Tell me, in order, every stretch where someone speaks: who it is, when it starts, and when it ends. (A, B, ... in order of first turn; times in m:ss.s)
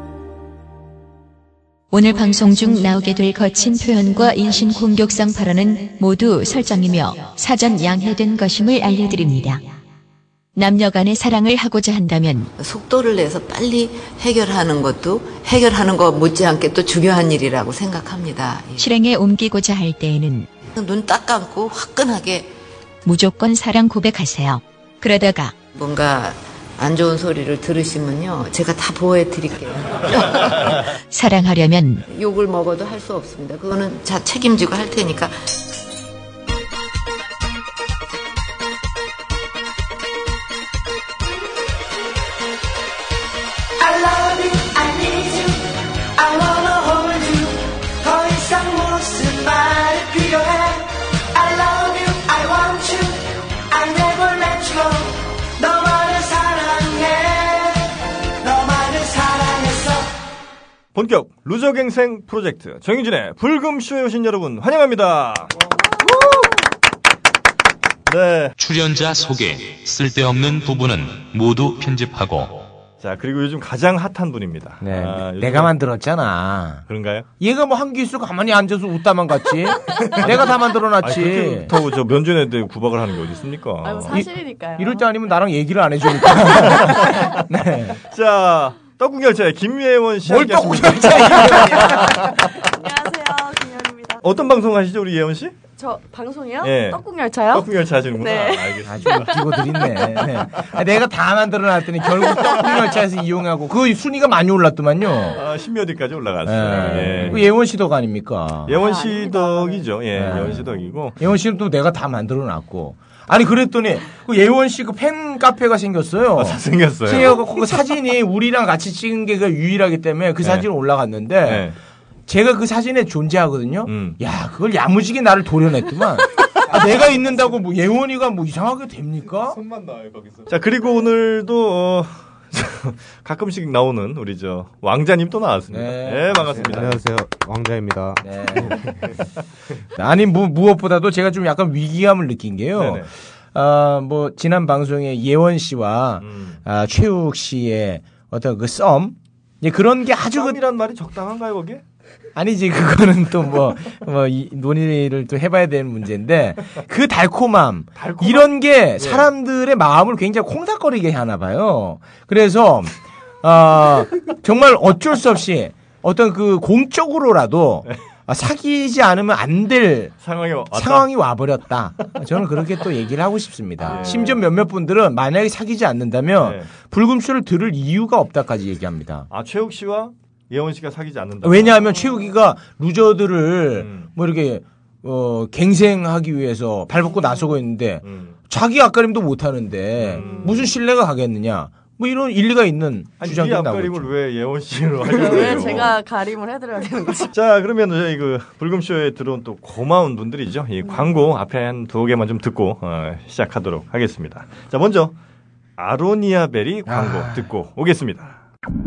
0:01.9-0:09.7 A
0:10.6-0:12.5 A
0:12.6-0:18.9 B
0:18.8-0:20.5 A
0:20.7-0:22.5 B
0:23.0-0:25.6 A
0:25.7-0:30.7 B
0:31.1-0:32.0 A
0:32.1-0:35.5 B
0:43.8-0:45.6 C
0:46.2-0:50.8 C
0:51.3-0:57.8 C
0:58.4-1:00.1 C
1:00.9-1:06.5 D
1:08.1-1:08.6 D
1:08.6-1:12.7 E
1:13.0-1:15.7 D
1:14.8-1:16.8 F
1:16.9-1:17.3 D
1:17.4-1:21.7 F
1:20.0-1:24.2 D
1:23.8-1:25.1 G
1:24.1-1:28.0 F
1:26.6-1:27.3 D
1:28.0-1:32.5 D
1:30.2-1:32.4 F
1:32.4-1:34.2 G
1:34.2-1:35.6 D
1:35.8-1:38.8 G
1:36.6-1:40.3 D
1:38.8-1:45.4 F
1:45.3-1:47.5 D
1:46.4-1:48.8 F
1:48.7-1:51.2 D
1:48.7-1:49.9 G
1:50.2-1:50.6 F
1:51.2-2:01.7 F
1:56.4-1:57.4 D
2:01.4-2:01.8 D
2:02.3-2:09.6 F
2:03.9-2:04.2 D
2:09.5-2:10.5 H
2:10.5-2:17.0 D
2:15.7-2:17.0 F
2:16.4-2:19.0 H
2:18.2-2:18.8 F
2:20.0-2:30.6 F
2:22.8-2:23.1 D
2:26.2-2:26.6 D
2:30.4-2:31.8 D
2:32.4-2:50.1 F
2:38.0-2:39.3 D
2:50.2-2:51.1 D
2:50.7-2:59.3 F
2:53.8-2:54.4 D
2:53.9-2:54.3 G
2:56.4-2:56.7 D
2:59.3-3:01.8 D
3:01.4-3:14.1 F
3:03.8-3:04.1 D
3:08.0-3:08.4 D
3:10.0-3:10.7 D
3:10.2-3:10.5 G
3:13.2-3:16.0 D
3:15.1-3:17.3 G
3:15.4-3:15.8 F
3:17.3-3:25.2 D
3:20.8-3:21.2 G
3:25.8-3:28.4 D
3:26.9-3:27.5 F